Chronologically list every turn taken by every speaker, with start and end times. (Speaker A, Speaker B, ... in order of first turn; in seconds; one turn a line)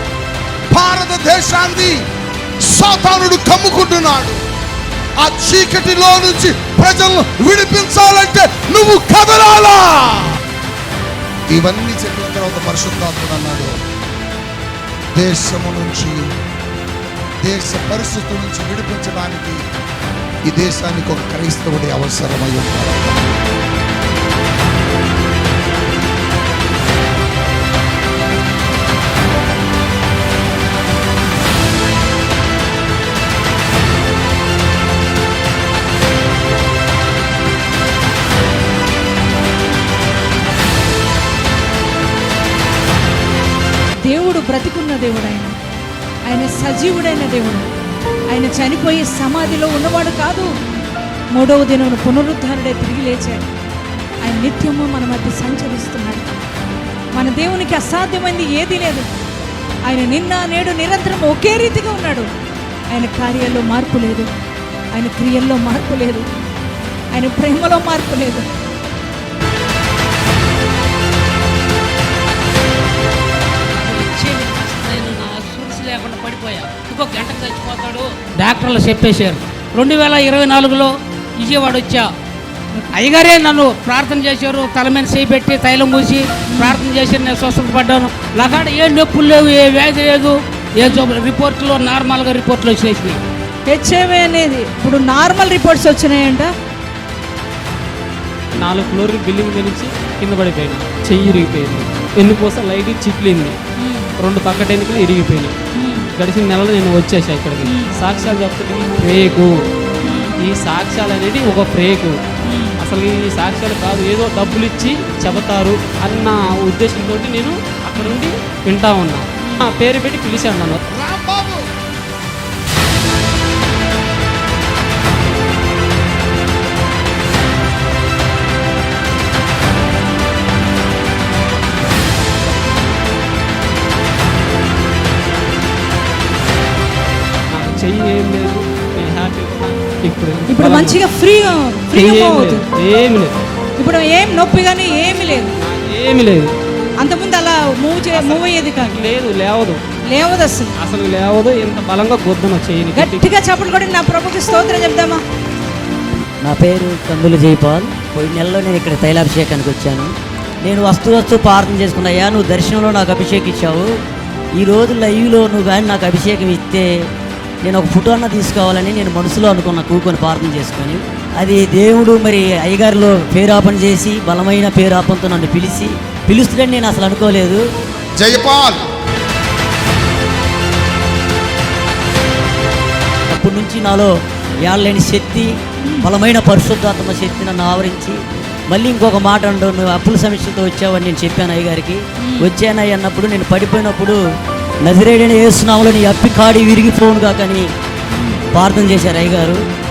Speaker A: 0.7-2.0
Speaker A: 2.7-4.4
Speaker A: 5.2-10.3
Speaker A: 11.5-13.7
Speaker A: 15.1-16.2
Speaker A: 17.4-19.6
Speaker A: 20.5-23.2
Speaker B: 44.0-45.5
Speaker B: 46.3-47.7
Speaker B: 48.3-50.5
Speaker B: 51.3-53.5
Speaker B: 54.2-56.3
Speaker B: 57.1-59.1
Speaker B: 59.9-62.3
Speaker B: 62.9-64.3
Speaker B: 64.9-66.3
Speaker B: 67.1-68.5
Speaker C: 73.8-82.1
Speaker C: 83.0-93.2
Speaker B: 86.5-86.8
Speaker B: 93.7-96.5
Speaker D: 98.5-103.5
Speaker D: 104.2-105.5
Speaker D: 106.2-109.5
Speaker B: 107.6-108.0
Speaker B: 110.0-110.3
Speaker D: 110.4-112.1
Speaker D: 112.8-120.8
Speaker A: 120.9-121.6
Speaker D: 137.5-141.0
Speaker B: 140.5-142.7
Speaker D: 141.9-143.3
Speaker B: 143.8-145.5
Speaker D: 145.6-146.5
Speaker B: 147.0-149.0
Speaker D: 148.1-149.8
Speaker B: 150.1-150.7
Speaker D: 150.8-153.3
Speaker B: 152.9-155.2
Speaker E: 156.4-163.9
Speaker E: 164.6-167.1
Speaker E: 167.6-177.6
Speaker A: 178.2-178.8
Speaker E: 183.3-184.1
Speaker E: 184.6-188.2
Speaker E: 188.7-194.2
Speaker E: 194.8-197.7
Speaker E: 198.5-199.6